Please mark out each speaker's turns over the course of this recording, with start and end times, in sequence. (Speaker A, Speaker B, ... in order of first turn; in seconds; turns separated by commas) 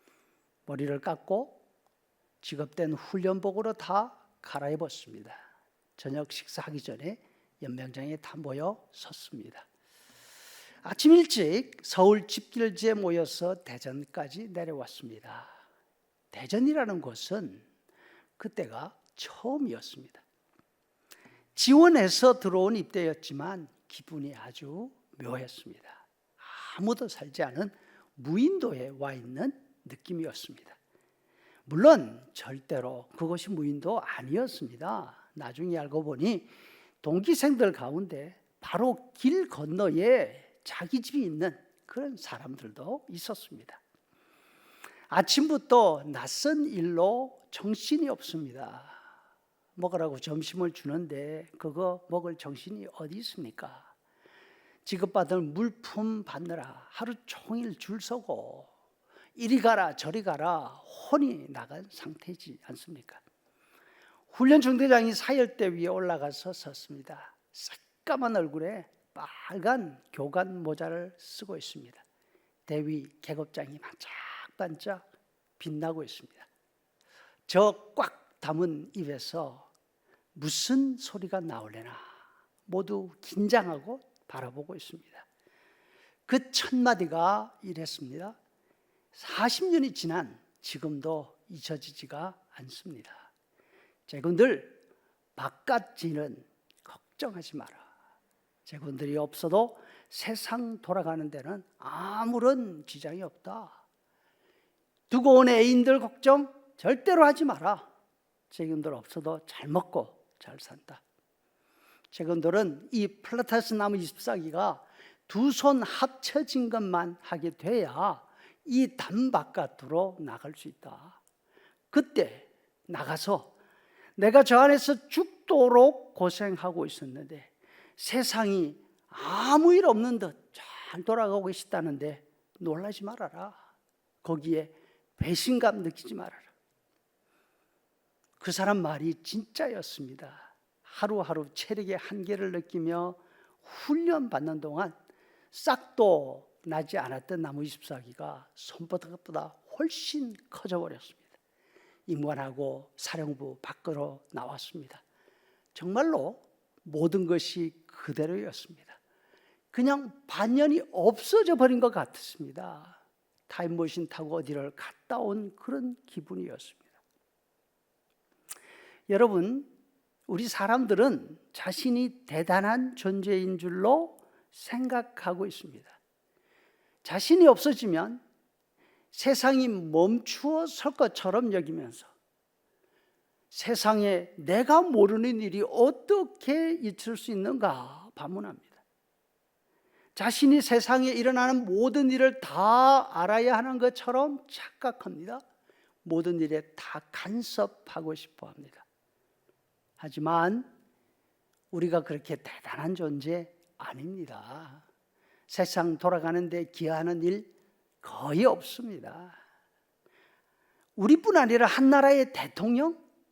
Speaker A: 0.7-1.6, Speaker A: 2.4-5.4, Speaker A: 6.0-9.7, Speaker A: 10.8-15.5, Speaker A: 16.3-17.6, Speaker A: 18.4-20.2, Speaker A: 21.5-30.8, Speaker A: 31.6-43.8, Speaker A: 45.1-49.0, Speaker A: 49.8-53.9, Speaker A: 54.8-58.7, Speaker A: 59.4-63.2, Speaker A: 64.3-72.0, Speaker A: 72.7-75.0, Speaker A: 75.6-76.5, Speaker A: 77.5-79.7, Speaker A: 80.3-82.1, Speaker A: 82.7-85.2, Speaker A: 86.3-88.4, Speaker A: 89.1-93.3, Speaker A: 94.1-94.8, Speaker A: 95.3-97.9, Speaker A: 98.7-103.8, Speaker A: 105.1-107.8, Speaker A: 108.5-111.0, Speaker A: 112.1-121.2, Speaker A: 121.9-123.5, Speaker A: 124.2-133.6, Speaker A: 134.2-136.5, Speaker A: 138.4-144.9, Speaker A: 145.5-151.3, Speaker A: 152.1-155.0, Speaker A: 155.7-159.0, Speaker A: 159.7-166.9, Speaker A: 169.1-169.7, Speaker A: 170.3-176.0, Speaker A: 177.0-178.2, Speaker A: 179.1-182.1, Speaker A: 183.5-188.8, Speaker A: 190.1-195.4, Speaker A: 196.0-198.8, Speaker A: 200.0-200.7, Speaker A: 201.7-204.8, Speaker A: 205.5-207.5, Speaker A: 208.0-209.4, Speaker A: 211.0-213.0